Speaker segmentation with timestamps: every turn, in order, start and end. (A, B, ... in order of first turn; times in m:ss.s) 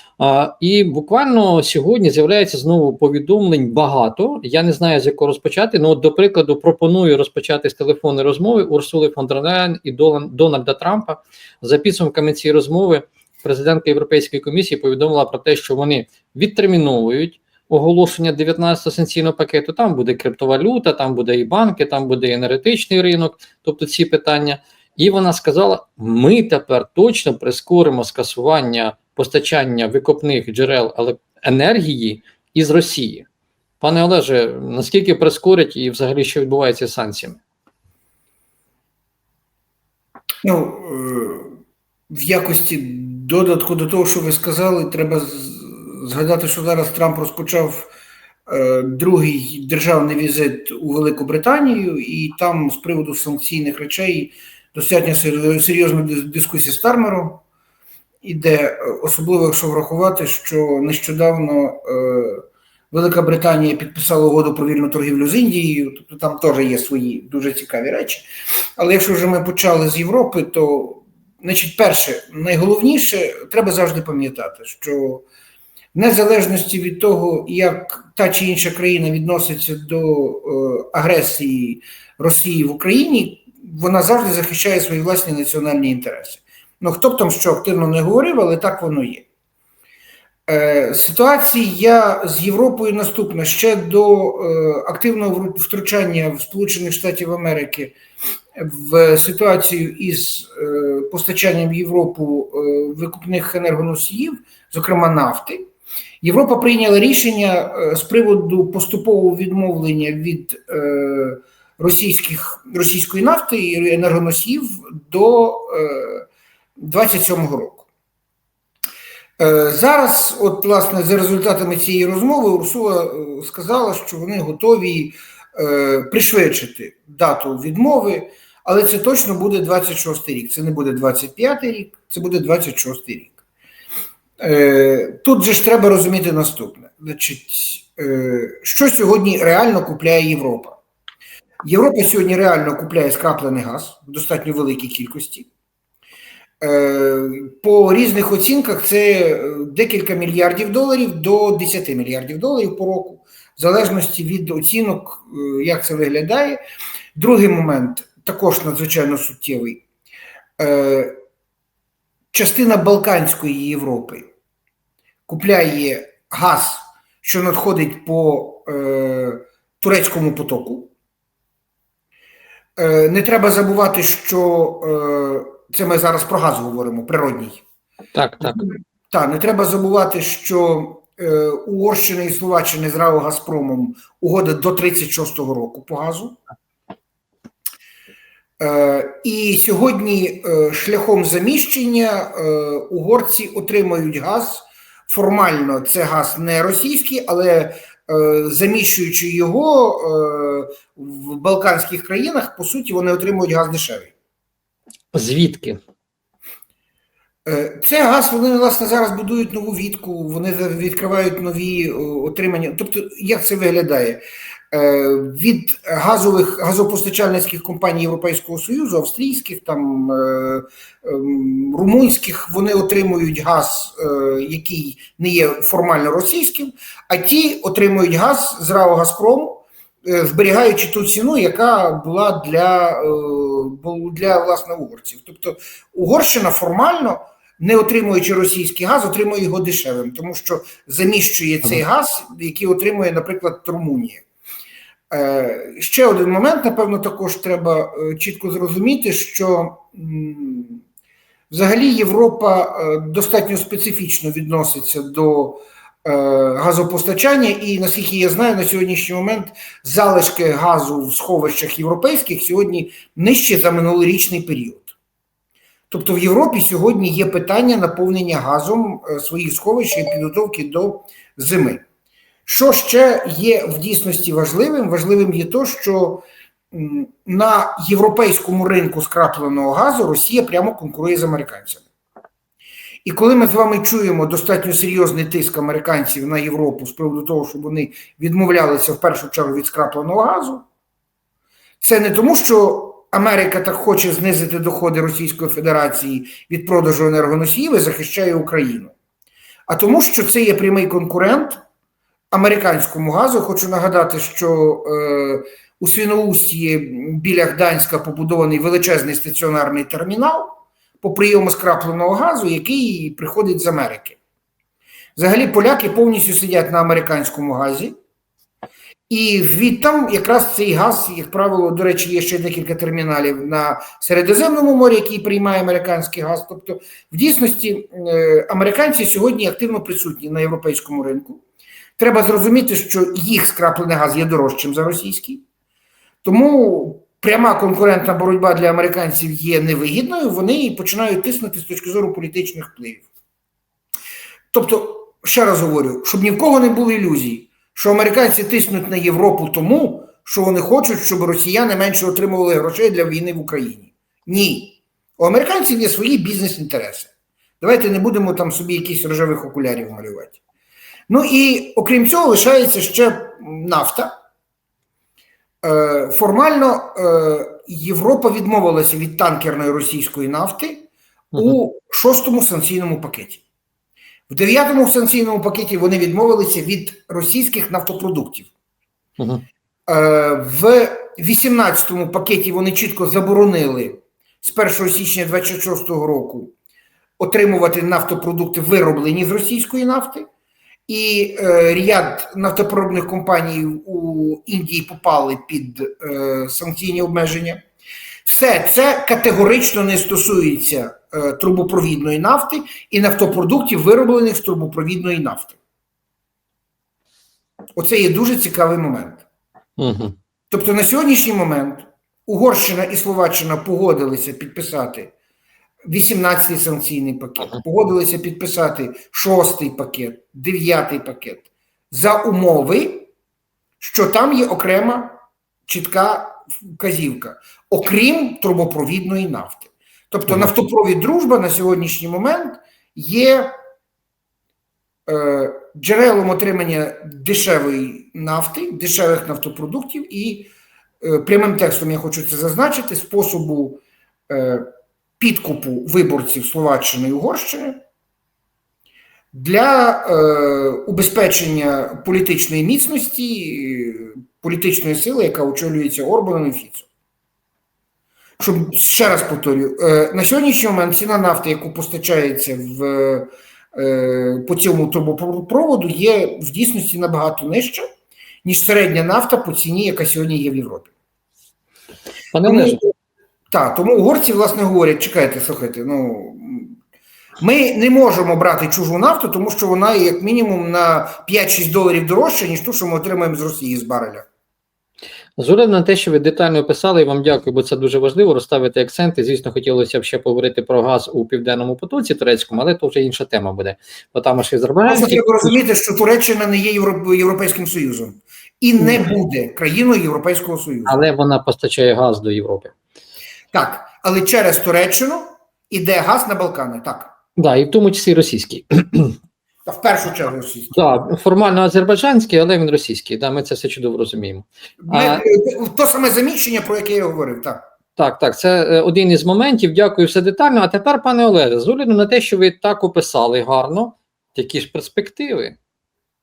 0:00.2-0:33.3 A
0:33.8-0:37.4 A
0:40.4-0:41.5 B
0:42.1-0:47.9 B
0:48.5-0:57.4 B
0:58.2-1:08.2 B
1:08.8-1:15.2 B
1:15.9-1:29.3 B
1:30.5-1:37.9 B
1:38.6-1:45.6 B
1:46.2-1:56.2 B
1:56.8-1:57.8 B
1:59.4-2:13.4 B
2:14.4-2:20.8 B
2:21.6-2:25.5 B
2:26.6-2:36.6 B
2:37.1-2:39.8 B
2:40.6-2:41.2 B
2:42.3-2:44.3 B
2:45.3-2:50.9 B
2:52.8-2:57.6 B
2:58.1-2:58.6 A
2:58.4-3:06.4 B
3:08.6-3:24.1 B
3:25.1-3:25.8 A
3:27.4-3:34.2 B
3:34.7-4:04.2 B
4:05.1-4:10.8 B
4:11.5-4:24.9 B
4:25.9-4:31.8 B
4:32.4-4:41.8 B
4:43.0-4:50.6 B
4:51.8-4:58.9 B
4:59.7-5:01.6 B
5:02.3-5:14.2 B
5:15.2-5:17.9 B
5:19.1-5:31.4 B
5:32.0-5:35.4 B
5:36.2-5:43.1 B
5:44.5-5:57.1 B
5:57.6-6:00.4 B
6:01.1-6:04.1 B
6:05.6-6:13.4 B
6:11.3-6:11.6 A
6:14.3-6:18.5 B
6:19.2-6:19.4 A
6:19.9-6:26.5 B
6:27.2-6:30.2 B
6:30.9-6:37.6 B
6:38.2-6:45.6 B
6:47.8-6:49.2 B
6:49.8-6:50.1 A
6:50.5-6:55.1 B
6:55.8-7:03.1 B
7:03.8-7:13.5 B
7:10.3-7:10.7 A
7:15.1-7:24.6 B
7:25.2-7:27.8 B
7:29.3-7:36.9 B
7:38.4-7:47.8 B
7:48.4-7:50.9 B
7:52.3-7:52.8 A
7:52.4-7:52.8 B
7:53.5-7:56.7 B
7:57.4-8:04.3 B
8:05.4-8:15.6 A
8:14.9-8:21.0 B
8:18.8-8:19.0 A
8:20.9-8:22.7 A
8:23.5-8:27.1 B
8:27.4-8:29.2 A
8:29.6-8:30.8 B
8:30.7-8:35.2 A
8:34.8-8:37.6 B
8:38.0-8:45.6 A